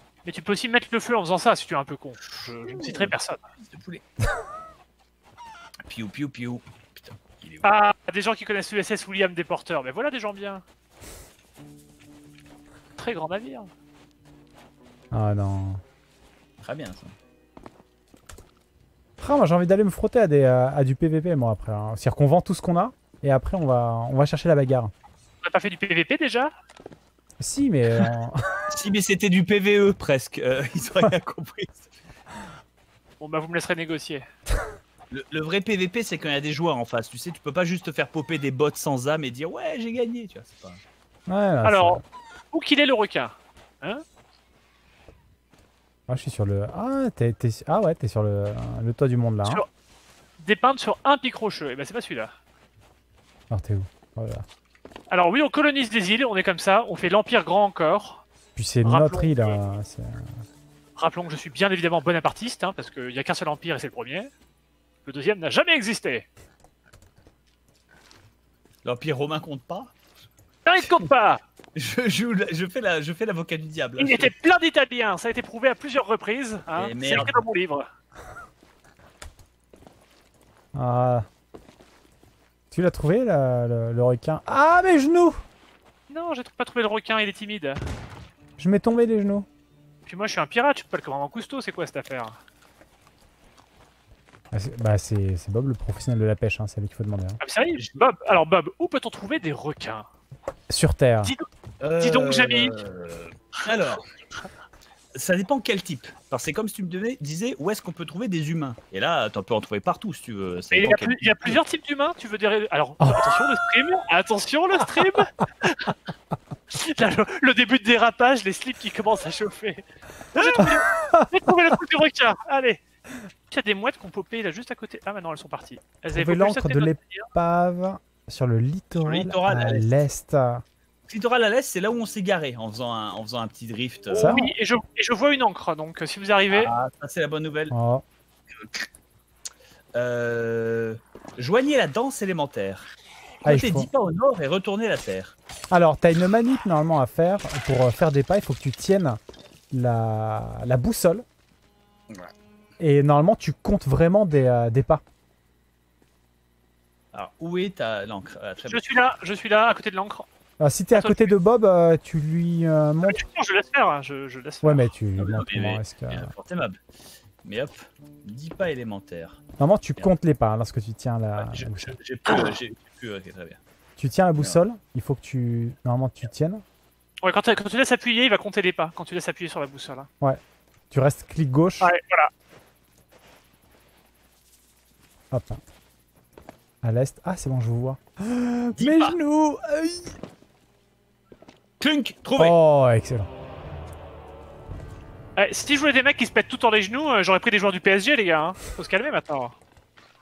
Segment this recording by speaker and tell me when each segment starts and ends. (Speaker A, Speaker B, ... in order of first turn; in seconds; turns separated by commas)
Speaker A: 0.2-3.4, Speaker B: 2.6-4.0, Speaker B: 5.8-7.7, Speaker A: 7.6-10.6, Speaker A: 13.0-13.7, Speaker C: 15.1-15.8, Speaker B: 16.6-17.1, Speaker C: 19.2-24.9, Speaker A: 25.4-26.5, Speaker C: 27.4-28.4, Speaker B: 28.7-31.9, Speaker A: 33.2-34.2, Speaker B: 35.1-40.8, Speaker C: 41.3-42.0, Speaker A: 41.6-42.0, Speaker A: 42.5-44.0, Speaker C: 46.1-49.6, Speaker A: 50.4-52.3, Speaker C: 53.5-54.4, Speaker A: 55.1-58.2, Speaker C: 58.5-60.3, Speaker A: 58.8-59.6, Speaker A: 61.0-64.3, Speaker A: 65.0-66.3, Speaker B: 68.8-69.9, Speaker A: 70.6-71.4, Speaker B: 71.7-74.3, Speaker A: 74.0-77.9, Speaker B: 76.8-77.4, Speaker C: 80.7-81.2, Speaker C: 82.7-85.4, Speaker A: 86.1-87.8, Speaker C: 88.6-89.5, Speaker A: 90.1-92.4, Speaker C: 94.5-97.4, Speaker A: 97.4-100.1, Speaker B: 97.8-98.1, Speaker C: 100.7-101.3, Speaker B: 101.8-104.0, Speaker A: 102.0-102.8, Speaker B: 105.1-111.6, Speaker A: 110.7-115.9, Speaker C: 113.0-113.3, Speaker A: 116.7-122.8, Speaker C: 120.6-121.3, Speaker A: 123.5-127.3, Speaker C: 126.1-130.6, Speaker B: 129.0-130.0, Speaker B: 131.1-134.4, Speaker A: 134.1-136.7, Speaker C: 134.2-134.5, Speaker B: 136.5-137.7, Speaker C: 137.7-138.0, Speaker B: 139.9-142.9, Speaker B: 143.4-145.3, Speaker C: 143.4-143.9, Speaker C: 145.7-149.2, Speaker C: 149.7-151.2, Speaker C: 152.8-155.0, Speaker B: 157.1-158.8, Speaker A: 158.7-160.2, Speaker C: 160.6-163.2, Speaker A: 160.9-161.3, Speaker A: 163.0-164.9, Speaker C: 164.6-166.3, Speaker B: 165.2-166.8, Speaker B: 167.4-169.4, Speaker C: 169.6-171.9, Speaker B: 171.4-173.6, Speaker C: 174.0-176.6, Speaker A: 177.2-180.1, Speaker C: 180.2-181.9, Speaker A: 181.8-182.3, Speaker C: 185.3-185.6, Speaker C: 186.8-190.2, Speaker B: 188.8-189.2, Speaker B: 191.8-192.5, Speaker C: 192.3-193.3, Speaker A: 195.4-199.5